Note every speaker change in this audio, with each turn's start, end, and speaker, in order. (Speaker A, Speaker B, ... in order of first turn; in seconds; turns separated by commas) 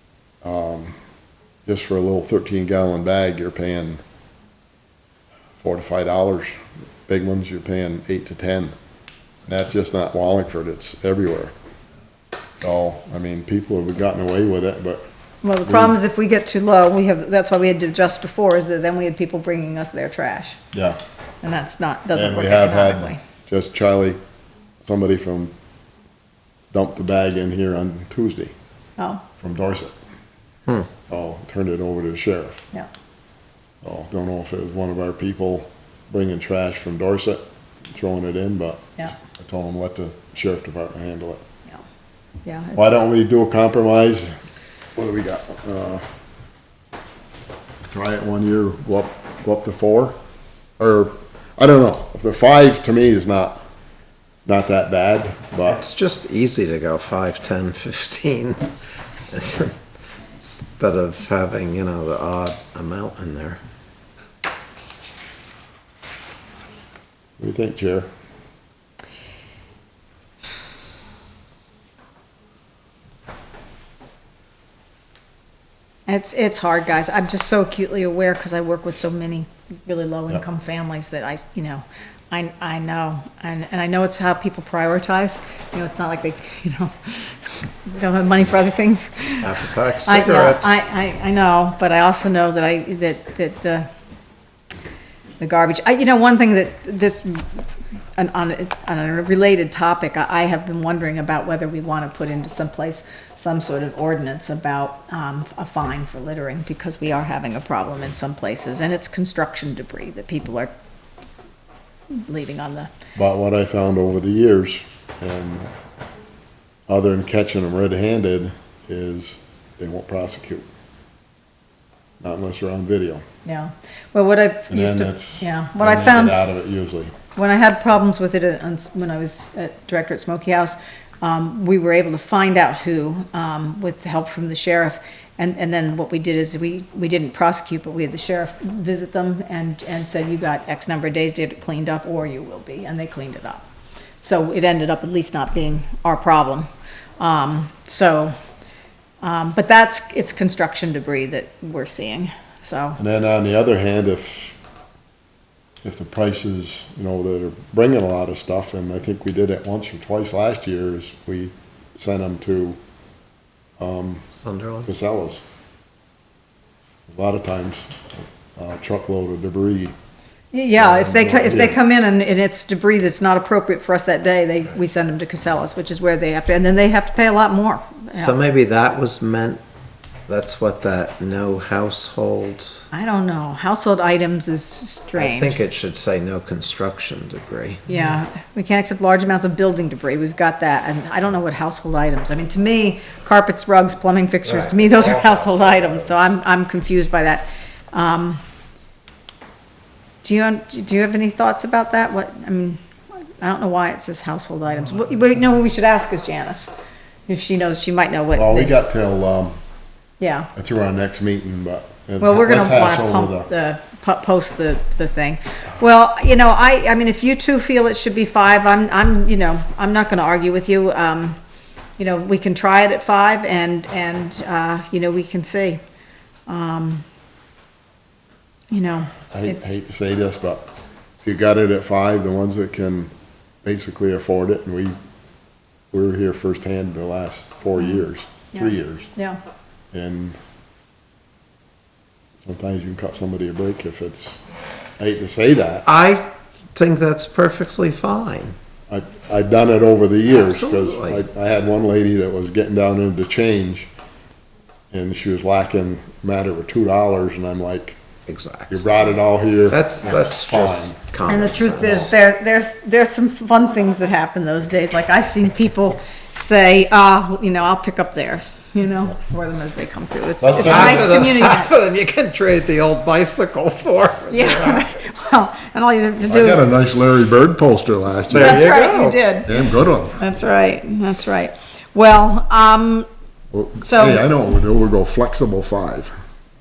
Speaker A: 0.4-1.0, Speaker A: 1.6-4.0, Speaker A: 5.6-8.7, Speaker A: 9.5-11.5, Speaker A: 12.6-15.1, Speaker B: 15.4-20.6, Speaker A: 15.6-16.0, Speaker A: 20.7-21.0, Speaker B: 21.4-23.2, Speaker A: 22.1-24.2, Speaker A: 24.8-25.5, Speaker A: 26.7-28.5, Speaker B: 29.0-29.2, Speaker A: 29.4-29.9, Speaker A: 31.1-32.6, Speaker A: 33.8-41.4, Speaker B: 42.5-42.9, Speaker A: 42.8-44.4, Speaker A: 45.0-46.0, Speaker A: 47.9-50.2, Speaker A: 50.8-53.6, Speaker A: 54.5-55.8, Speaker C: 55.7-58.7, Speaker C: 59.3-59.8, Speaker C: 60.4-63.6, Speaker A: 67.4-68.1, Speaker B: 76.1-89.5, Speaker C: 89.4-90.8, Speaker B: 90.0-93.9, Speaker B: 95.4-97.5, Speaker B: 98.2-110.7, Speaker B: 112.1-112.9, Speaker A: 113.2-115.7, Speaker A: 116.9-120.7, Speaker A: 122.2-123.2, Speaker B: 123.5-126.4, Speaker A: 124.7-127.1, Speaker B: 127.4-143.7, Speaker B: 144.2-146.7, Speaker B: 147.2-148.3, Speaker B: 149.2-153.0, Speaker A: 153.0-154.6, Speaker A: 155.8-162.8, Speaker A: 163.8-164.3, Speaker C: 164.4-164.9, Speaker A: 164.8-165.4, Speaker A: 167.1-169.9, Speaker B: 170.5-178.3, Speaker A: 170.8-171.8, Speaker C: 178.1-179.6, Speaker C: 180.3-182.9, Speaker B: 182.9-185.6, Speaker C: 185.2-187.8, Speaker B: 187.9-198.4, Speaker C: 194.5-194.9, Speaker A: 194.7-196.1, Speaker B: 200.2-202.8, Speaker B: 203.4-206.7, Speaker B: 207.3-208.7, Speaker A: 208.3-209.6, Speaker B: 210.2-210.5, Speaker A: 210.6-213.5, Speaker B: 212.2-221.4, Speaker B: 222.0-225.8, Speaker B: 226.5-227.1, Speaker B: 228.7-229.8, Speaker A: 229.3-230.7, Speaker A: 231.2-233.1, Speaker A: 233.6-235.0, Speaker A: 235.9-239.1, Speaker B: 238.5-239.4, Speaker A: 239.9-240.4, Speaker A: 242.4-244.4, Speaker A: 245.0-245.9, Speaker C: 245.9-248.6, Speaker A: 248.9-253.9, Speaker C: 250.3-251.2, Speaker A: 254.9-258.0, Speaker C: 258.3-259.0, Speaker A: 258.7-261.0, Speaker C: 259.7-262.1, Speaker B: 261.3-271.7, Speaker A: 270.4-271.2, Speaker C: 270.5-274.9, Speaker B: 274.3-276.6, Speaker A: 276.3-278.7, Speaker C: 278.3-279.2, Speaker B: 278.3-283.1, Speaker A: 279.5-280.2, Speaker A: 283.5-286.1, Speaker B: 283.8-284.2